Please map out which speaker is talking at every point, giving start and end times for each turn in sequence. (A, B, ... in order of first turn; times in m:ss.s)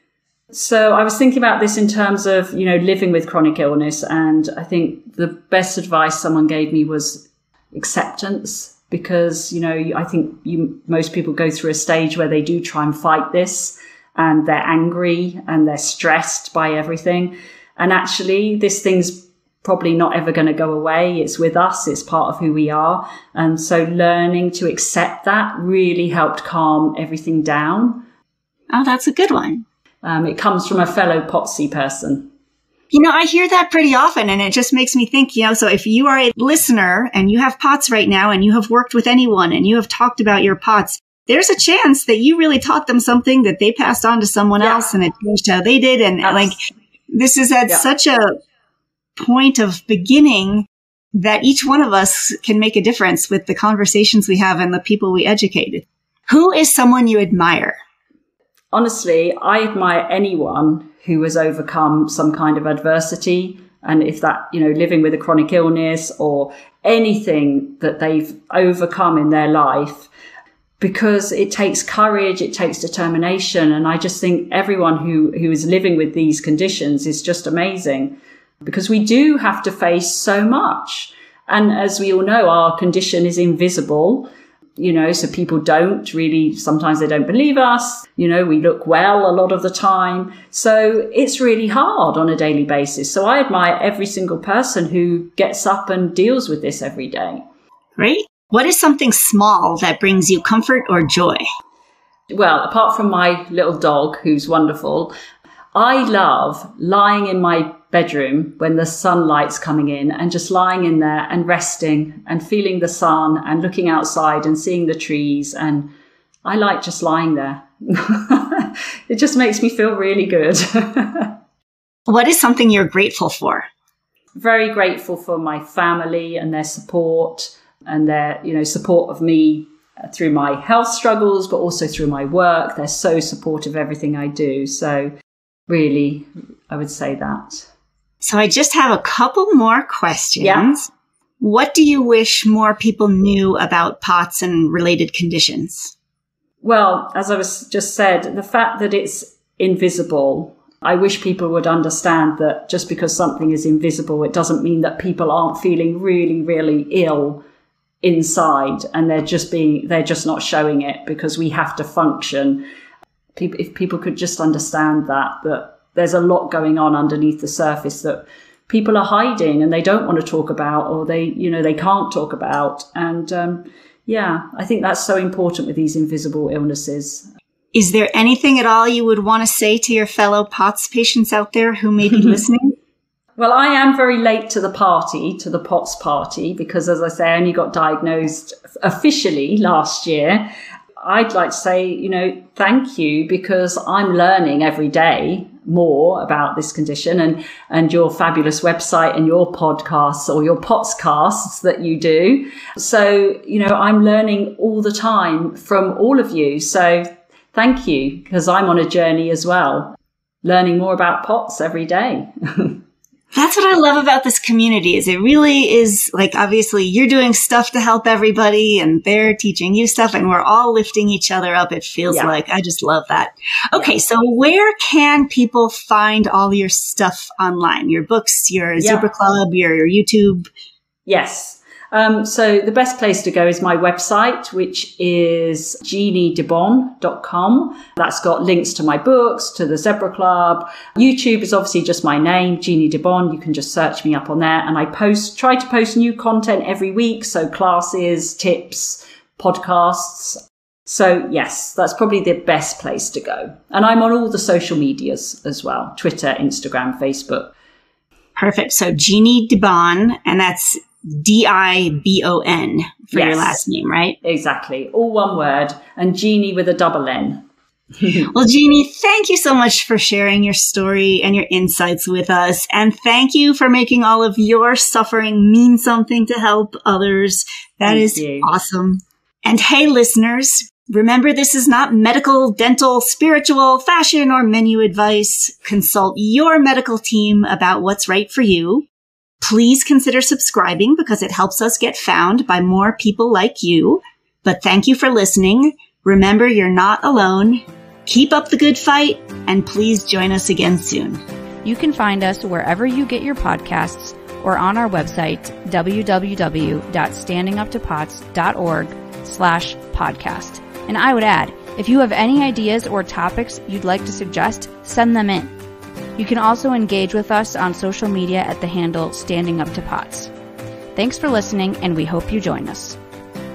0:00.5-0:28.0 A
0:28.7-0:29.6 B
0:30.0-0:32.3 A
0:32.9-0:46.6 B
0:44.6-0:44.9 A
0:46.2-0:46.5 A
0:47.1-0:48.3 B
0:49.2-0:57.8 B
0:58.7-1:10.1 A
1:10.8-1:37.4 A
1:38.0-1:41.4 B
1:42.3-1:45.1 A
1:45.7-1:55.9 A
1:56.4-2:01.4 A
2:02.1-2:03.7 B
2:04.4-2:15.1 A
2:15.7-2:17.7 A
2:18.2-2:25.9 B
2:20.4-2:20.7 A
2:26.6-2:37.4 A
2:38.0-2:42.6 A
2:43.4-2:57.3 A
2:57.7-3:02.8 B
3:03.4-3:32.8 A
3:33.3-3:50.5 B
3:42.1-3:42.4 A
3:48.8-3:49.1 A
3:51.1-4:17.5 A
4:18.4-4:24.2 B
4:23.1-4:23.6 A
4:24.2-4:27.4 A
4:28.0-4:28.3 A
4:28.3-4:48.9 B
4:37.9-4:38.5 A
4:49.4-5:01.2 B
5:01.6-5:15.5 C
5:16.2-5:20.3 C
5:21.0-5:23.0 C